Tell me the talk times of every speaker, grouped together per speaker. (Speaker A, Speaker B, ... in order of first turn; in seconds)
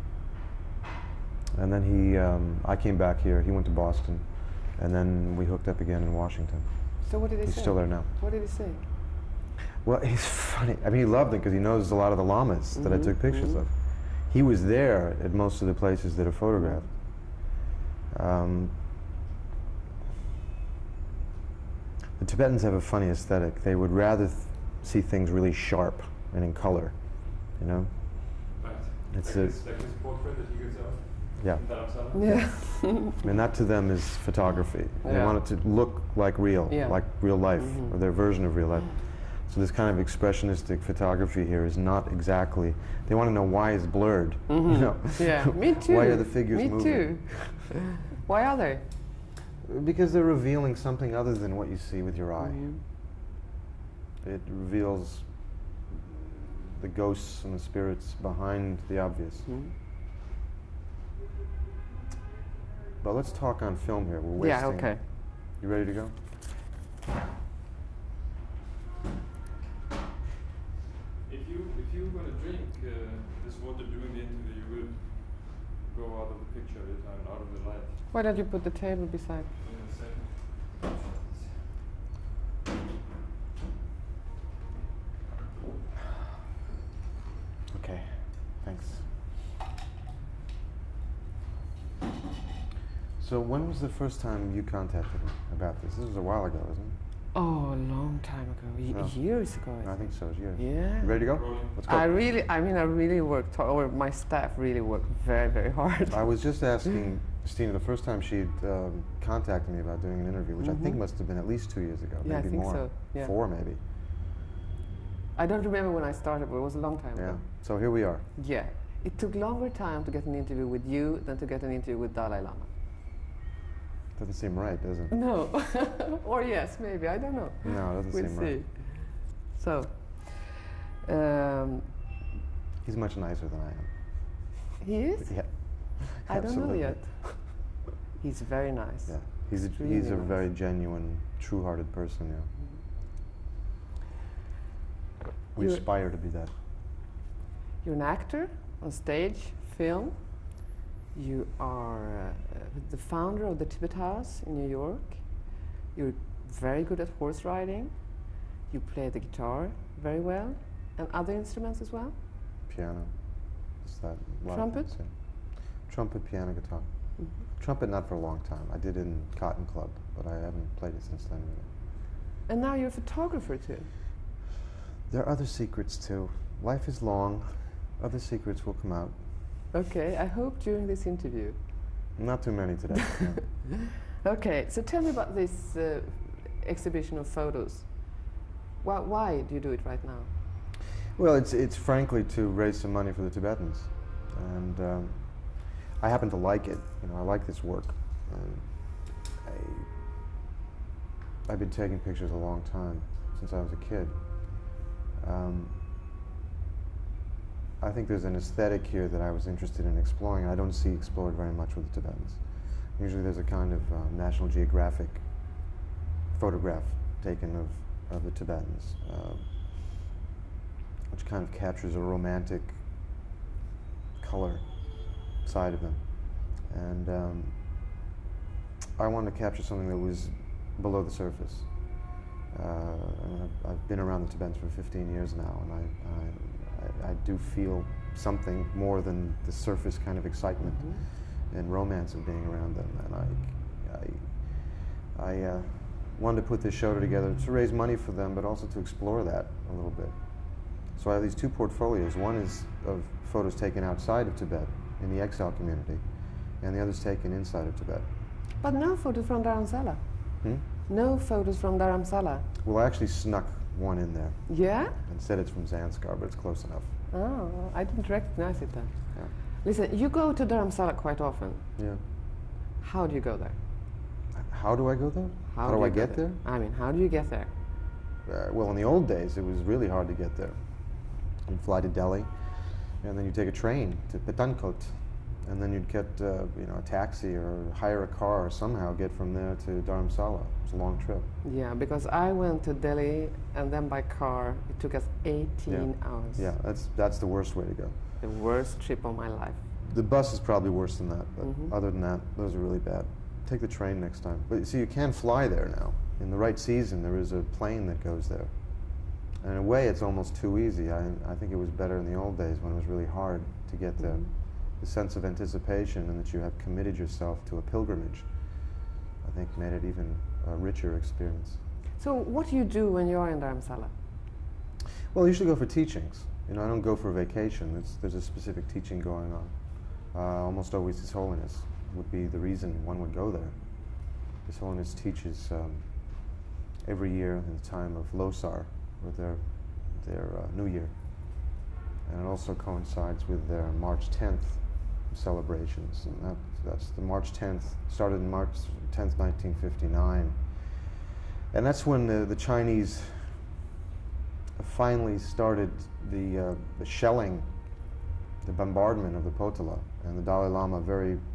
Speaker A: 1.5-8.1, 9.8-17.6, 18.1-18.9, 22.2-28.5, 29.1-29.6, 31.4-31.6, 32.2-47.7, 49.6-52.7, 54.2-59.5, 63.0-66.2, 87.7-89.1, 93.2-97.0, 98.9-102.1, 106.1-113.8, 117.2-118.3, 124.2-125.2, 127.6-128.6, 132.8-134.6, 135.2-137.7, 139.1-142.5, 145.5-146.5, 162.7-171.7, 175.1-179.2, 182.2-183.5, 191.2-199.9, 201.4-205.8, 207.8-215.5, 216.3-219.5, 221.1-222.8, 224.2-227.6, 229.0-258.1, 262.6-266.9, 271.8-272.0, 274.3-276.4, 278.2-291.3, 295.7-298.0, 299.8-321.6, 325.1-341.5, 342.1-350.9, 351.5-353.4, 354.6-357.5, 358.4-361.2
Speaker B: 7.0-8.8, 12.8-13.6, 32.1-33.1, 35.0-35.4, 36.7-37.9, 44.5-48.9, 52.4-52.8, 59.5-59.7, 64.4-65.0, 78.1-79.5, 97.3-106.3, 110.6-111.0, 112.2-113.3, 115.3-117.6, 118.4-122.7, 125.1-132.0, 134.8-140.4, 145.6-145.8, 147.8-162.2, 164.5-164.9, 172.5-173.9, 179.7-181.6, 183.5-190.3, 240.7-241.0, 258.6-262.5, 264.5-265.0, 267.1-271.7, 272.8-273.6, 275.5-277.5, 291.4-296.5, 298.2-299.6, 301.4-301.7, 322.0-323.9
Speaker C: 28.6-32.6, 71.2-78.1, 79.6-81.7, 101.3-101.8